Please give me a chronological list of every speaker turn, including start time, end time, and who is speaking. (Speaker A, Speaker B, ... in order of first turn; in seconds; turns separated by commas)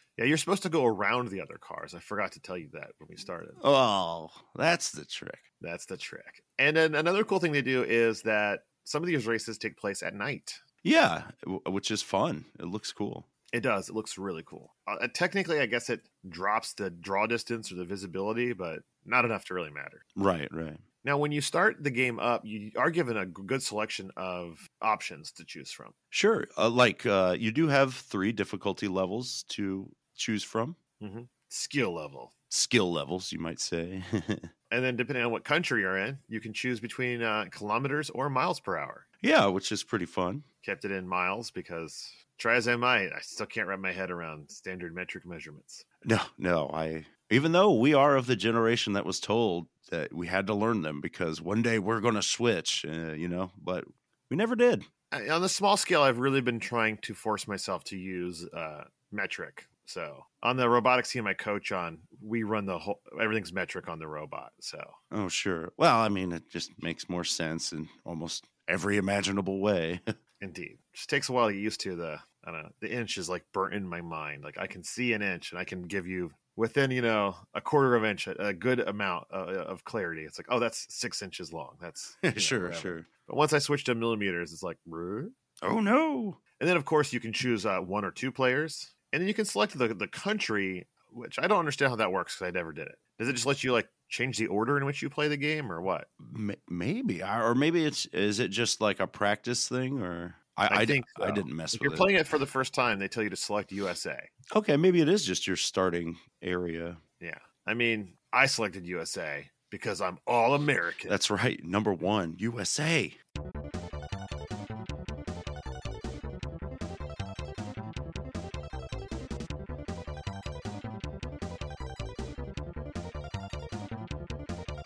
Speaker A: 0.2-3.6, Speaker B: 3.6-5.4, Speaker A: 5.6-10.6, Speaker B: 10.8-13.3, Speaker A: 13.5-20.0, Speaker B: 20.1-20.8, Speaker A: 21.0-25.9, Speaker B: 26.1-30.8, Speaker A: 31.0-32.3, Speaker B: 32.5-34.5, Speaker A: 34.7-39.0, Speaker B: 39.2-40.4, Speaker A: 40.6-45.8, Speaker B: 46.0-54.9, Speaker A: 55.1-65.0, Speaker B: 65.1-70.0, Speaker A: 70.4-85.3, Speaker B: 82.2-83.1, Speaker B: 85.6-86.4, Speaker A: 86.6-96.1, Speaker B: 96.2-102.1, Speaker A: 100.7-104.3, Speaker B: 104.5-107.0, Speaker A: 107.2-111.1, Speaker B: 111.1-113.2